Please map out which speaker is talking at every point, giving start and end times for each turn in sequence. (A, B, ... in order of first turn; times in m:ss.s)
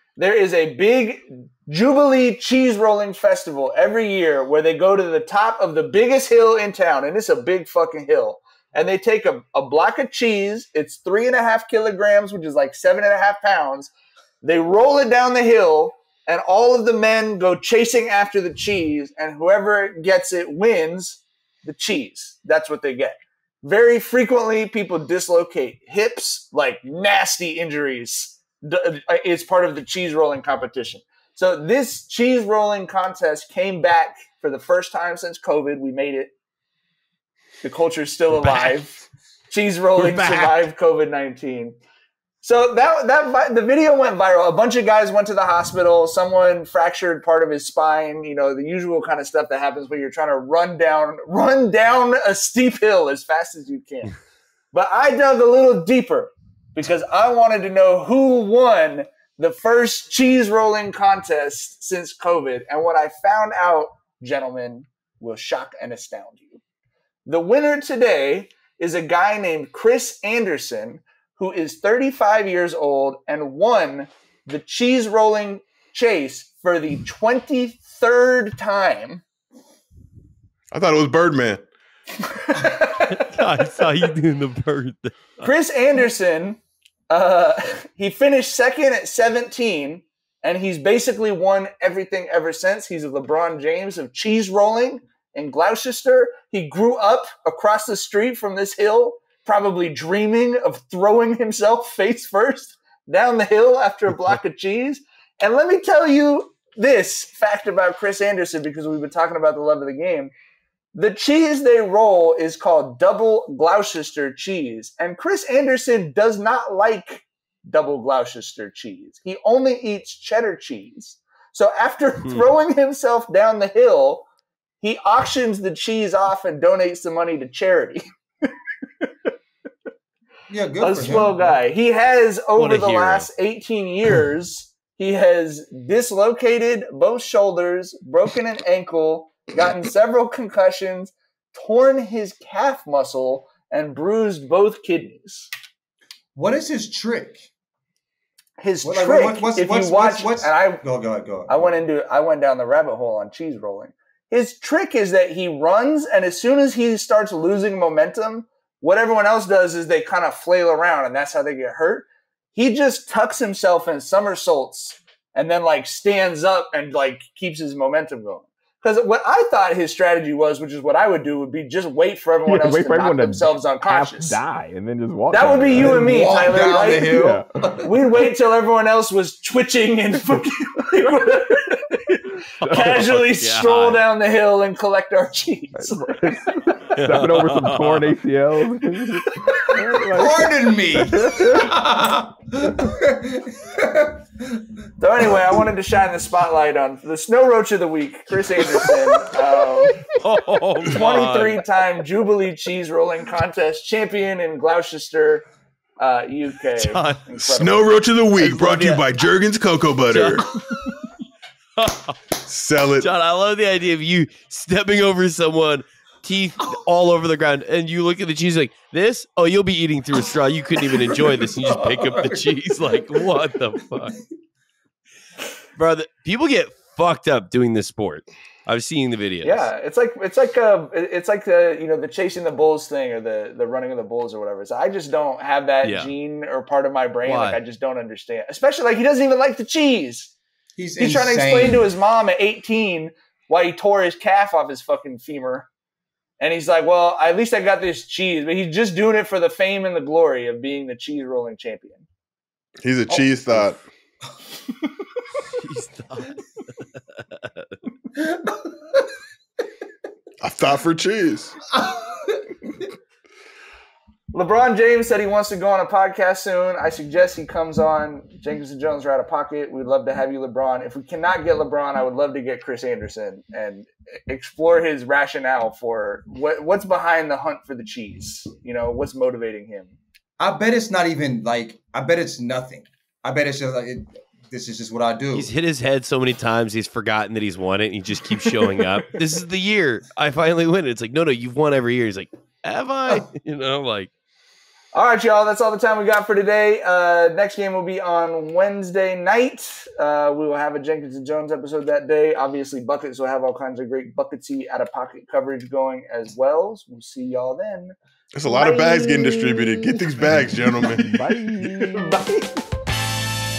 0:00.2-0:36.3 A
0:37.6-0:41.8 A
0:38.4-0:38.8 B
0:40.0-0:40.6 B
0:42.4-0:54.1 A
0:54.7-1:06.6 A
1:07.3-1:19.2 A
1:20.7-1:21.6 C
1:22.3-1:23.8 A
1:23.0-1:25.5 B
1:25.4-1:50.3 A
1:50.9-2:04.3 A
2:04.8-2:08.0 A
2:10.5-2:11.6 D
2:10.8-2:25.5 A
2:12.6-2:13.3 B
2:26.4-2:27.5 D
2:28.6-2:30.8 A
2:28.8-2:31.8 D
2:31.5-2:54.4 A
2:52.5-2:56.3 E
2:55.3-2:57.2 A
2:55.8-2:57.9 D
2:57.0-2:57.5 E
2:57.8-3:06.3 A
3:02.6-3:03.1 E
3:02.8-3:04.0 B
3:05.8-3:11.8 E
3:07.0-3:08.2 B
3:10.1-3:14.7 D
3:12.6-3:12.9 E
3:15.0-3:20.1 A
3:20.1-3:21.6 B
3:20.9-3:25.4 A
3:26.0-3:27.9 A
3:26.8-3:27.2 B
3:27.4-3:30.5 C
3:28.4-3:29.0 B
3:30.1-3:30.5 B
3:31.8-3:32.2 B
3:32.5-3:33.1 C
3:33.0-3:44.2 B
3:40.8-3:43.3 D
3:45.8-3:49.7 B
3:49.4-4:00.3 A
3:55.8-3:56.1 B
3:57.2-3:57.6 B
4:00.8-4:01.9 D
4:01.0-4:05.7 A
4:06.4-4:12.0 A
4:12.8-4:13.8 C
4:13.1-4:13.8 D
4:15.6-4:16.4 B
4:17.2-4:17.7 B
4:18.2-4:18.7 D
4:20.4-4:21.6 C
4:21.7-4:22.8 D
4:24.3-4:40.0 A
4:40.4-4:45.5 D
4:45.3-4:54.1 B
4:48.6-4:48.9 A
4:54.9-5:08.0 A
5:08.4-5:11.1 C
5:08.5-5:10.2 A
5:11.0-5:12.2 E
5:11.6-5:12.6 A